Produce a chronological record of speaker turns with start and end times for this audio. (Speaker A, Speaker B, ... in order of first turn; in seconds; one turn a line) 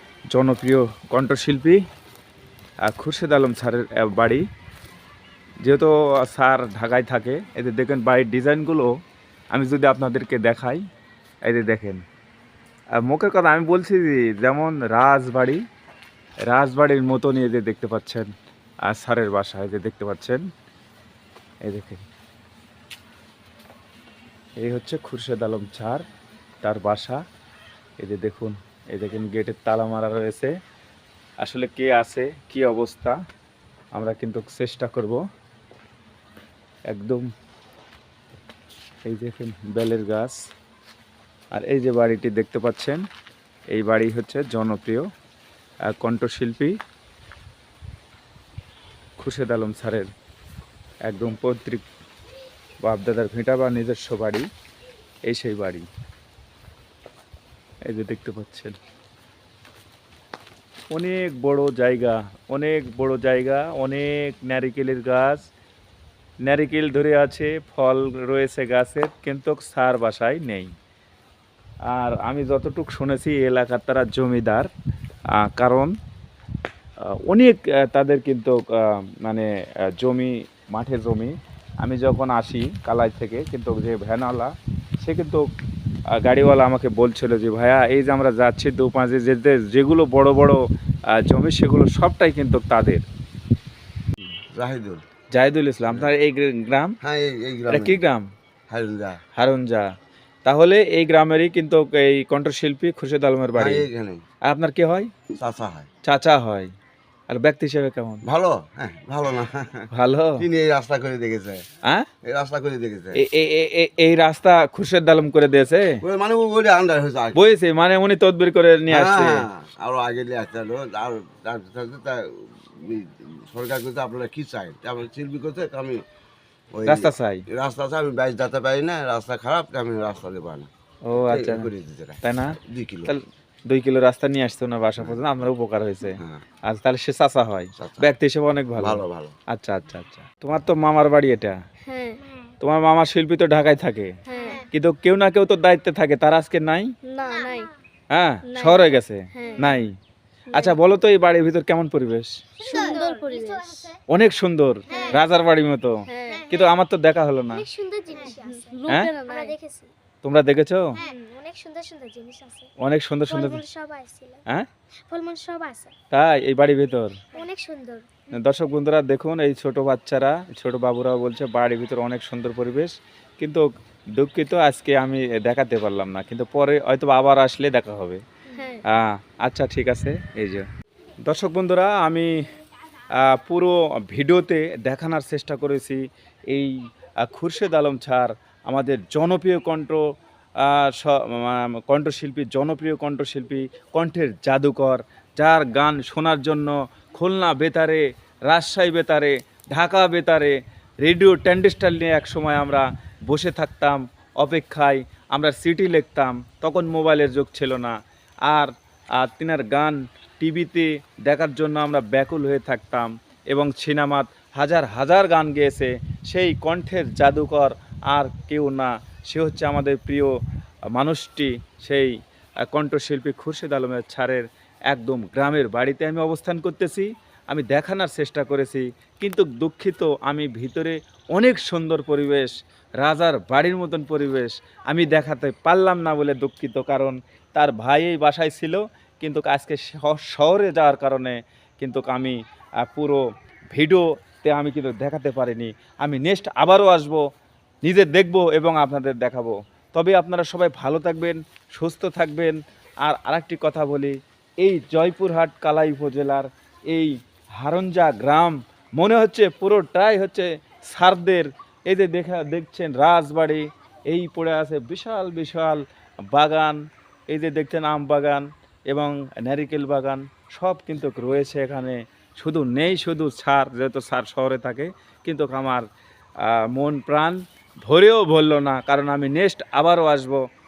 Speaker A: 0.3-1.8
Speaker A: 2.8-4.5
Speaker A: 5.6-8.9
Speaker A: 9.5-10.8
Speaker A: 11.4-12.0
Speaker A: 13.0-15.6
Speaker A: 16.4-18.3
Speaker A: 18.9-20.4
Speaker A: 21.6-22.0
Speaker A: 24.6-26.0
Speaker A: 26.6-27.2
Speaker A: 28.0-30.5
Speaker A: 31.4-33.2
Speaker A: 34.0-35.2
Speaker A: 36.9-37.2
Speaker A: 39.1-40.4
Speaker A: 41.5-43.0
Speaker A: 43.7-45.0
Speaker A: 45.9-46.7
Speaker A: 49.2-50.1
Speaker A: 51.1-51.8
Speaker A: 52.8-54.5
Speaker A: 55.3-55.9
Speaker A: 57.9-58.8
Speaker A: 60.9-65.4
Speaker A: 66.4-70.7
Speaker A: 71.9-74.7
Speaker A: 75.4-75.9
Speaker A: 77.2-85.4
Speaker A: 86.2-90.6
Speaker A: 91.2-93.0
Speaker B: 94.5-95.0
Speaker A: 95.3-97.0
Speaker B: 97.0-98.0
Speaker A: 97.7-98.3
Speaker B: 98.7-99.2
Speaker A: 99.3-99.9
Speaker A: 100.4-103.8
Speaker B: 103.5-104.2
Speaker A: 104.5-105.1
Speaker B: 105.3-105.9
Speaker A: 106.0-106.7
Speaker A: 107.3-108.2
Speaker B: 108.2-111.6
Speaker A: 109.9-110.4
Speaker B: 112.2-113.2
Speaker A: 113.1-116.0
Speaker B: 116.0-117.4
Speaker A: 117.3-119.5
Speaker B: 118.9-126.0
Speaker B: 126.7-130.7
Speaker A: 126.8-127.4
Speaker A: 131.1-141.6
Speaker B: 131.2-133.1
Speaker B: 136.2-136.4
Speaker B: 137.8-138.1
Speaker B: 138.8-139.3
Speaker C: 141.8-142.2
Speaker D: 142.2-142.5
Speaker A: 142.6-144.1
Speaker C: 144.3-144.6
Speaker D: 144.4-144.7
Speaker A: 144.7-146.9
Speaker C: 147.1-147.7
Speaker D: 147.3-147.7
Speaker A: 148.1-149.9
Speaker C: 148.5-149.8
Speaker A: 150.5-152.3
Speaker D: 152.6-153.9
Speaker C: 152.6-153.9
Speaker A: 154.1-157.6
Speaker D: 154.9-155.2
Speaker C: 156.1-156.5
Speaker D: 156.3-156.7
Speaker D: 157.5-159.9
Speaker C: 158.3-159.6
Speaker A: 160.2-161.0
Speaker D: 160.9-162.7
Speaker A: 162.8-163.6
Speaker D: 163.3-164.4
Speaker D: 165.1-165.9
Speaker A: 166.1-167.2
Speaker D: 167.3-168.3
Speaker A: 168.3-173.6
Speaker A: 174.2-178.2
Speaker C: 178.5-178.8
Speaker A: 178.9-180.6
Speaker A: 181.2-182.3
Speaker A: 183.2-186.7
Speaker A: 187.2-190.0
Speaker A: 190.6-207.9
Speaker A: 208.4-220.3
Speaker A: 220.9-222.1
Speaker A: 222.7-247.2
Speaker A: 247.8-266.8
Speaker A: 267.3-275.9
Speaker A: 276.4-280.4